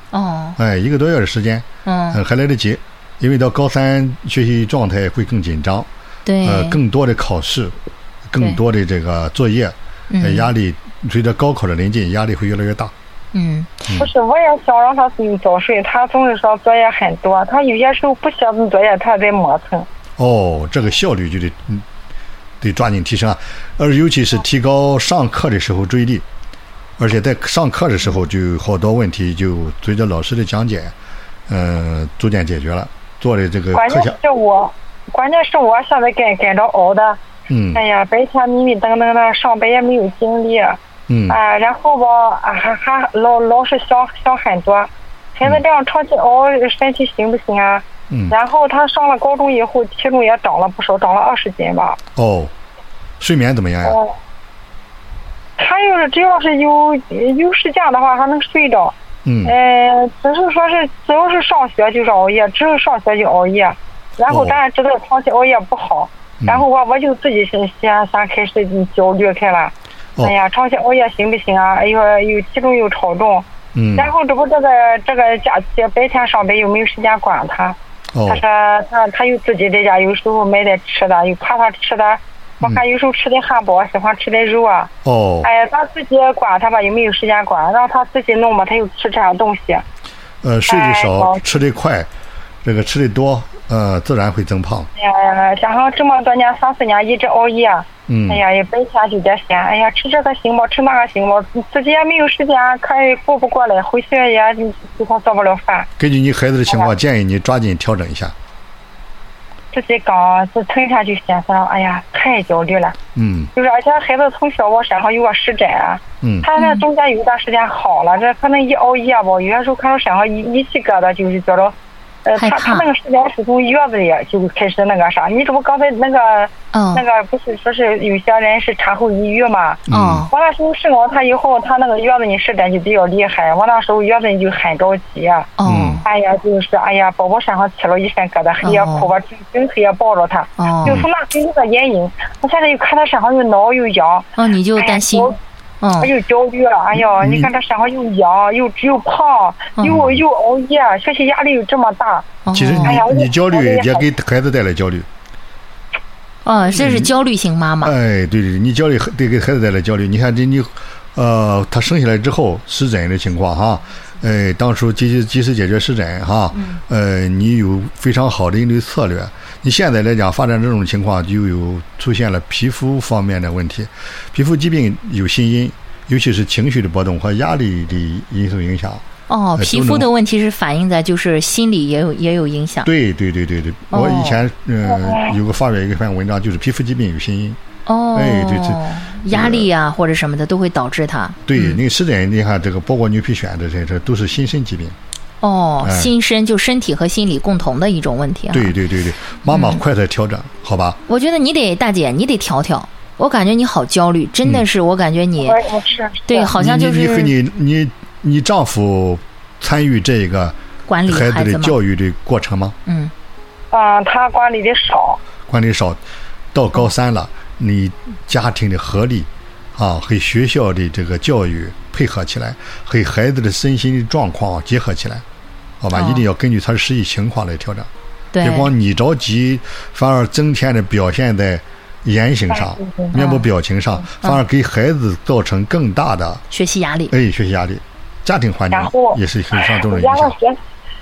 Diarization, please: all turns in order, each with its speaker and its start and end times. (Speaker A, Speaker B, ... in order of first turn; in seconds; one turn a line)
Speaker A: 0.1-0.6
Speaker B: 0.6-5.9
Speaker A: 1.8-2.2
Speaker A: 6.3-6.8
Speaker B: 6.4-7.8
Speaker B: 8.3-12.9
Speaker A: 10.1-10.5
Speaker A: 13.3-13.9
Speaker C: 14.0-19.9
Speaker B: 20.2-21.8
Speaker B: 22.6-26.2
Speaker B: 27.0-30.9
Speaker B: 31.5-34.2
Speaker C: 33.7-37.2
Speaker B: 37.5-37.8
Speaker C: 37.7-40.8
Speaker B: 41.1-41.4
Speaker C: 41.3-52.0
Speaker B: 48.1-48.3
Speaker B: 52.2-52.5
Speaker B: 53.2-54.0
Speaker C: 53.8-54.1
Speaker C: 55.6-77.8
Speaker B: 59.2-59.5
Speaker B: 64.3-64.6
Speaker B: 73.8-74.1
Speaker B: 78.1-78.4
Speaker C: 78.3-84.9
Speaker B: 85.0-85.5
Speaker C: 85.4-89.8
Speaker B: 90.4-92.1
Speaker C: 90.7-91.4
Speaker B: 92.6-94.9
Speaker C: 95.0-105.9
Speaker B: 98.1-98.4
Speaker B: 106.0-108.3
Speaker C: 109.7-113.0
Speaker B: 113.2-113.5
Speaker C: 113.5-121.7
Speaker B: 116.2-116.5
Speaker A: 116.6-116.8
Speaker C: 122.2-135.5
Speaker A: 122.3-122.9
Speaker A: 126.7-127.0
Speaker B: 129.9-130.3
Speaker A: 129.9-130.3
Speaker A: 135.6-136.0
Speaker B: 135.7-136.0
Speaker C: 136.0-145.3
Speaker A: 138.6-139.1
Speaker A: 140.6-141.0
Speaker A: 144.3-146.1
Speaker C: 146.0-154.1
Speaker B: 147.2-147.5
Speaker B: 149.8-150.2
Speaker A: 152.4-153.0
Speaker B: 152.5-155.1
Speaker A: 156.4-157.9
Speaker B: 156.7-157.1
Speaker B: 157.8-179.0
Speaker A: 179.3-182.9
Speaker B: 179.6-180.1
Speaker B: 182.8-187.6
Speaker A: 183.9-184.4
Speaker C: 184.9-185.3
Speaker A: 187.8-191.8
Speaker B: 188.1-189.7
Speaker B: 191.5-195.0
Speaker A: 195.4-198.7
Speaker B: 195.8-196.1
Speaker B: 198.5-201.0
Speaker A: 199.5-199.8
Speaker A: 201.1-205.6
Speaker C: 205.4-206.5
Speaker A: 206.3-207.3
Speaker B: 206.5-210.6
Speaker A: 210.9-211.8
Speaker B: 211.1-212.8
Speaker A: 212.8-213.1
Speaker C: 213.7-215.2
Speaker B: 215.5-216.0
Speaker B: 216.5-225.2
Speaker B: 225.8-227.9
Speaker A: 225.9-226.2
Speaker A: 228.3-228.7
Speaker B: 228.4-236.4
Speaker C: 232.5-233.1
Speaker A: 233.1-233.4
Speaker A: 236.5-237.1
Speaker B: 237.1-240.3
Speaker C: 238.7-240.6